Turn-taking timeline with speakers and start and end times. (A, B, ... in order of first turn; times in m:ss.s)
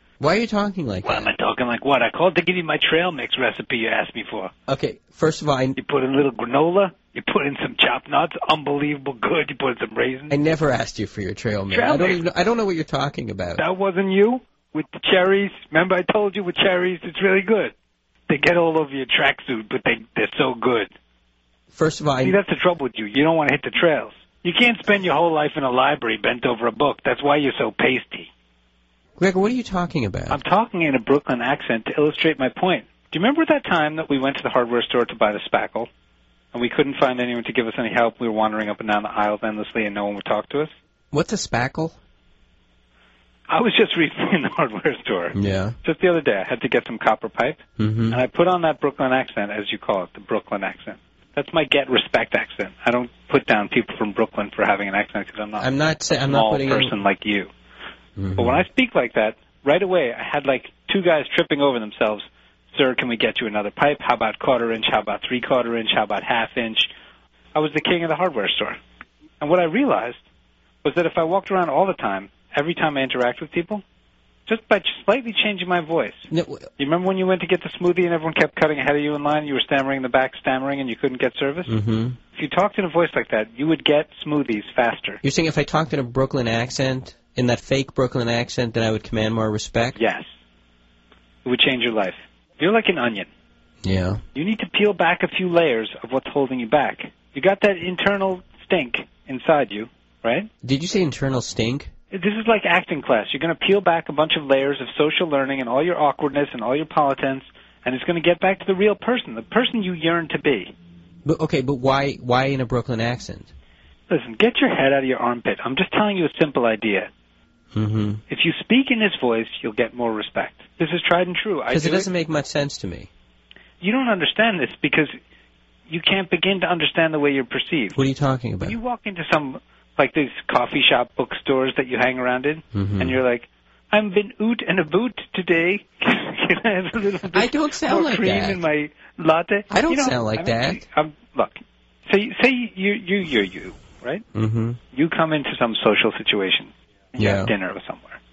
0:00.2-0:01.3 A
0:01.0-0:04.5 B
0:04.7-0:05.8 A
0:05.8-0:10.4 B
0:10.3-0:13.6 A
0:11.7-0:12.2 B
0:13.6-0:17.7 B
0:18.3-0:20.9 B
0:21.7-0:22.4 A
0:22.2-0:28.3 B
0:29.2-0:30.4 A
0:30.3-0:35.9 B
0:36.5-0:40.7 B
0:41.1-0:41.9 A
0:43.5-0:57.5 B
0:45.3-0:45.7 A
0:47.8-0:48.2 A
0:55.6-0:56.9 A
0:58.2-0:58.6 A
0:58.4-1:06.9 B
1:07.5-1:08.8 B
1:09.4-1:10.2 B
1:10.8-1:13.8 B
1:14.5-1:16.3 B
1:16.3-1:16.6 A
1:16.8-1:21.7 B
1:21.7-1:22.2 A
1:22.3-1:25.2 B
1:25.2-1:30.0 A
1:30.0-1:30.2 B
1:31.4-1:33.3 B
1:33.8-1:34.2 A
1:34.3-1:40.5 B
1:40.6-1:41.9 A
1:42.1-1:50.7 B
1:51.2-1:53.5 A
1:54.1-1:57.1 B
1:57.7-1:58.2 A
1:58.3-2:02.1 B
2:01.7-2:03.1 A
2:03.8-2:05.1 B
2:05.9-2:08.0 B
2:08.0-2:08.8 A
2:08.6-2:24.2 B
2:12.8-2:13.2 A
2:17.3-2:18.6 A
2:19.7-2:20.8 A
2:24.3-2:24.8 A
2:24.9-2:28.2 B
2:27.2-2:27.5 A